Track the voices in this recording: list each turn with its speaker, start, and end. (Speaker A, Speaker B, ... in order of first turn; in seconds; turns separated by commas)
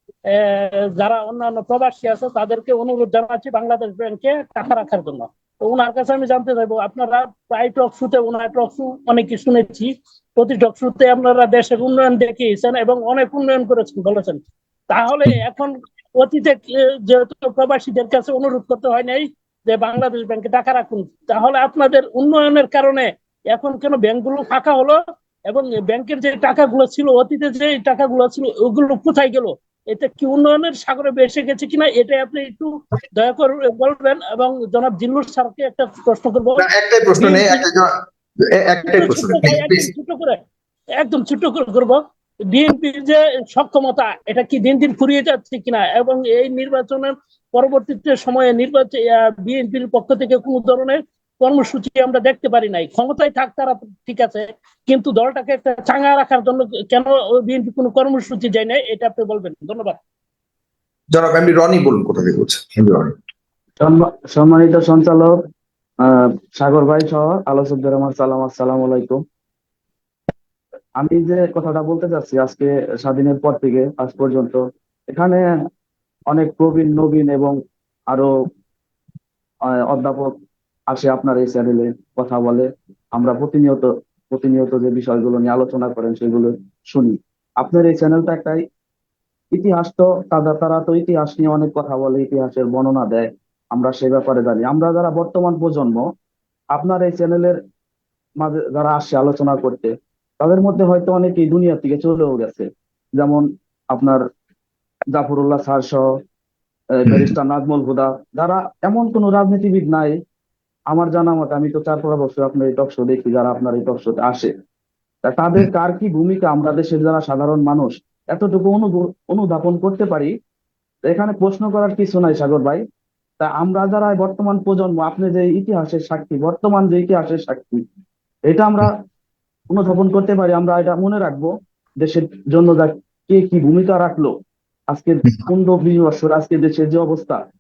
Speaker A: 0.3-36.6, Speaker B: 36.6-37.9, Speaker A: 37.2-37.6, Speaker B: 38.6-39.9, Speaker A: 38.9-40.4, Speaker A: 41.0-42.0, Speaker A: 42.5-60.0, Speaker B: 61.1-63.1, Speaker C: 63.8-65.4, Speaker C: 66.0-69.2, Speaker C: 71.0-75.5, Speaker C: 76.3-77.6, Speaker C: 79.8-80.3, Speaker C: 80.9-88.6, Speaker C: 89.5-96.0, Speaker C: 96.8-97.6, Speaker C: 98.4-104.2, Speaker C: 105.1-106.1, Speaker C: 107.0-110.2, Speaker B: 107.1-107.3, Speaker C: 110.9-114.5, Speaker C: 115.2-120.3, Speaker C: 121.1-122.8, Speaker C: 123.4-127.8, Speaker C: 128.5-129.0, Speaker C: 129.7-134.3, Speaker C: 134.9-137.4